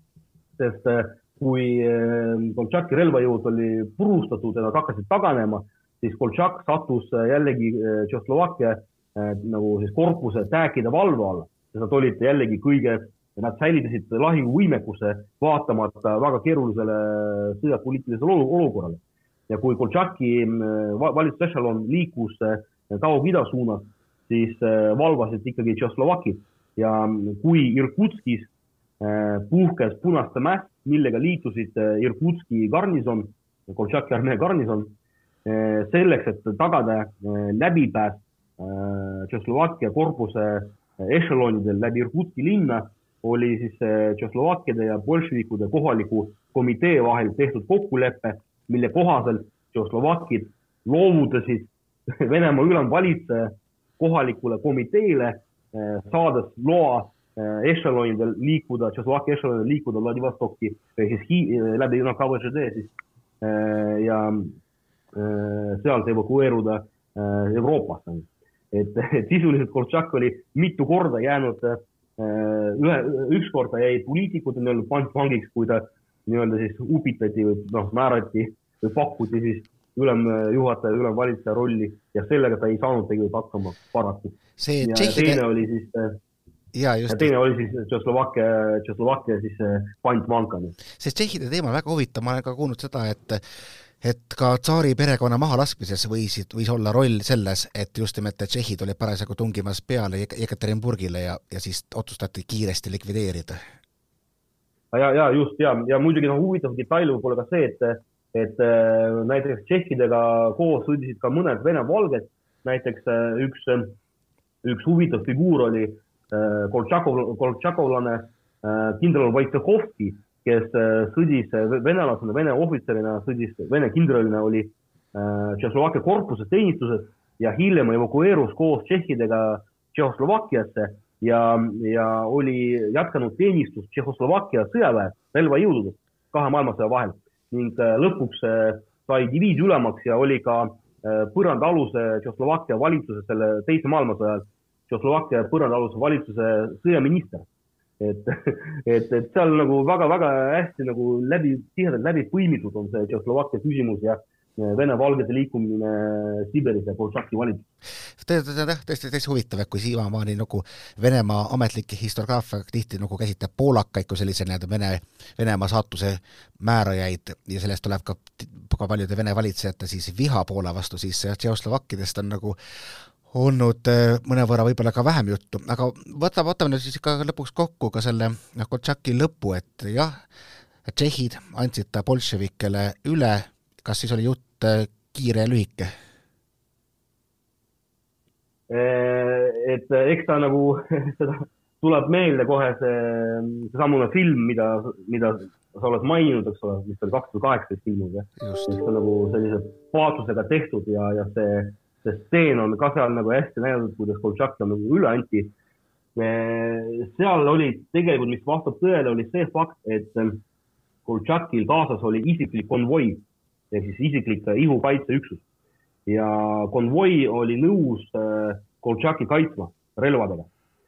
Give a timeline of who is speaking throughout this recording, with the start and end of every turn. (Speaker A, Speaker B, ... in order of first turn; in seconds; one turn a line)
Speaker A: 0.6-34.9
Speaker A: 35.5-64.5
Speaker A: 65.1-86.2
Speaker B: 84.6-85.4
Speaker B: 86.7-87.3
Speaker A: 87.1-90.8
Speaker B: 90.9-93.4
Speaker B: 94.0-103.6
Speaker A: 104.9-113.9
Speaker A: 114.6-147.4
Speaker A: 148.0-157.6
Speaker B: 158.2-172.6
Speaker B: 173.3-180.2
Speaker B: 180.9-185.9
Speaker A: 188.7-205.5
Speaker B: 198.4-198.7
Speaker A: 206.2-210.4
Speaker A: 211.1-215.4
Speaker A: 216.1-220.5